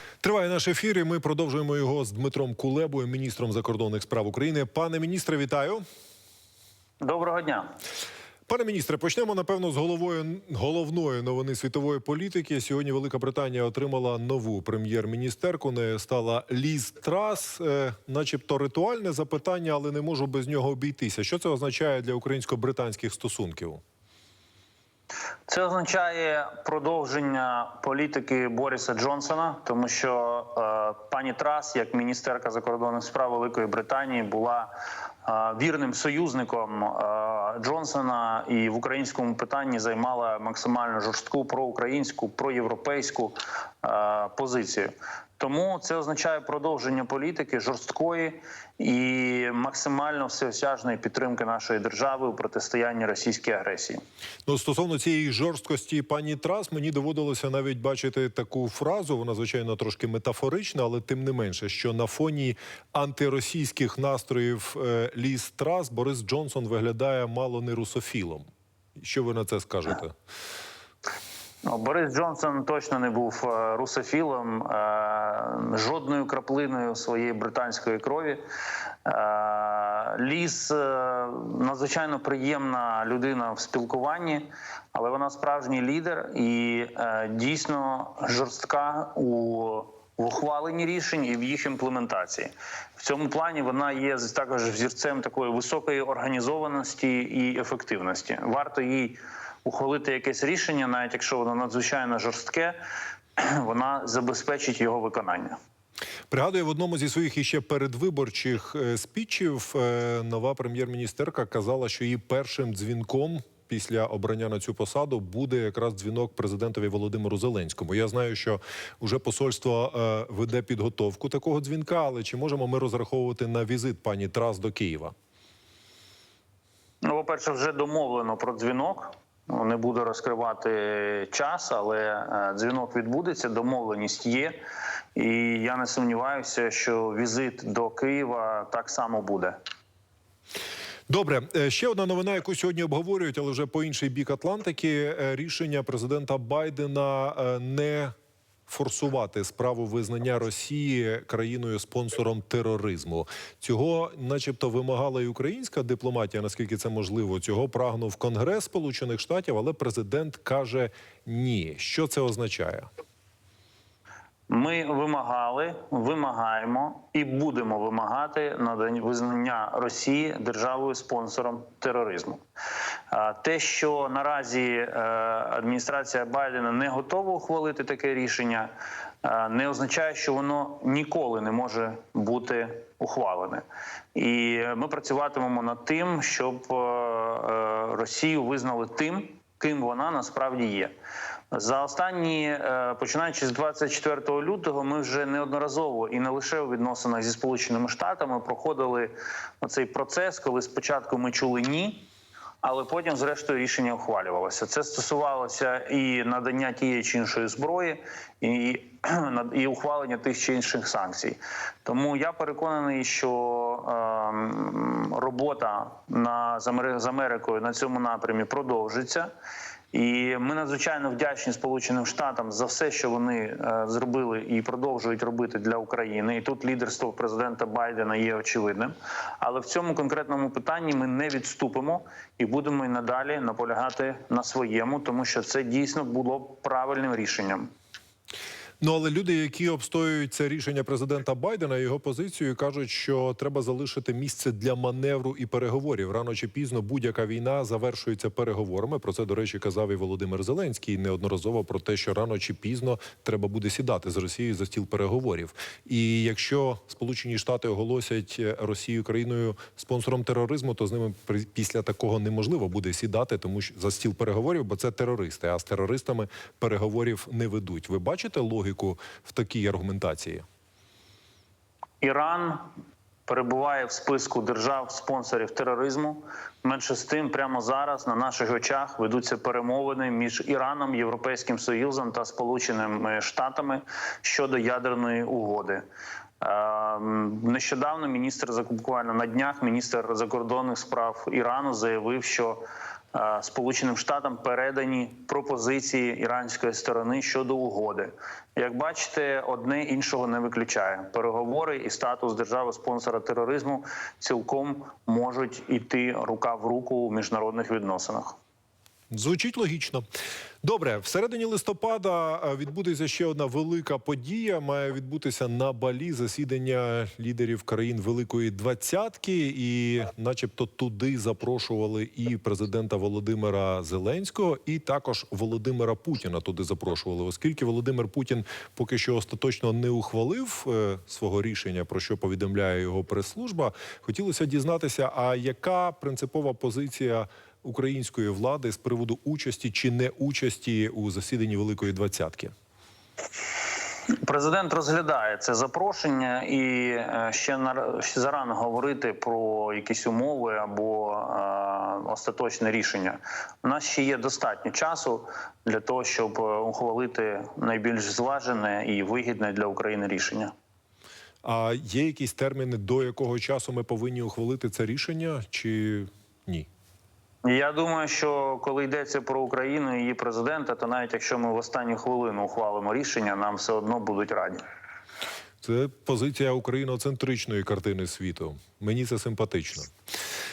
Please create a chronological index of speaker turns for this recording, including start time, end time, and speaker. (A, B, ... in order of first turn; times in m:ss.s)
0:00.2-0:05.8 A
0:07.0-0:07.7 B
0:08.5-0:23.8 A
0:25.5-0:34.7 B
0:35.2-0:54.0 B
0:54.4-1:08.4 A
1:09.0-1:10.1 A
1:11.6-1:18.4 B
1:19.0-1:42.8 B
1:43.4-1:45.6 B
1:46.3-2:05.1 A
2:07.0-2:14.6 B
2:15.1-2:19.6 B
2:21.1-2:28.1 A
2:28.7-2:42.9 A
2:44.5-2:52.4 B
2:53.1-2:58.7 B
2:59.2-3:03.6 B
3:04.1-3:10.9 B
3:11.5-3:22.1 B
3:22.6-3:39.3 B
3:39.9-3:57.7 B
3:58.8-4:30.4 A
4:32.0-4:32.6 B
4:33.3-4:45.8 B
4:46.4-5:08.4 B
5:09.1-5:10.0 A
5:10.6-5:42.5 A
5:44.2-6:00.5 B
6:01.4-6:06.7 A
6:07.4-6:14.6 B
6:15.6-6:19.9 A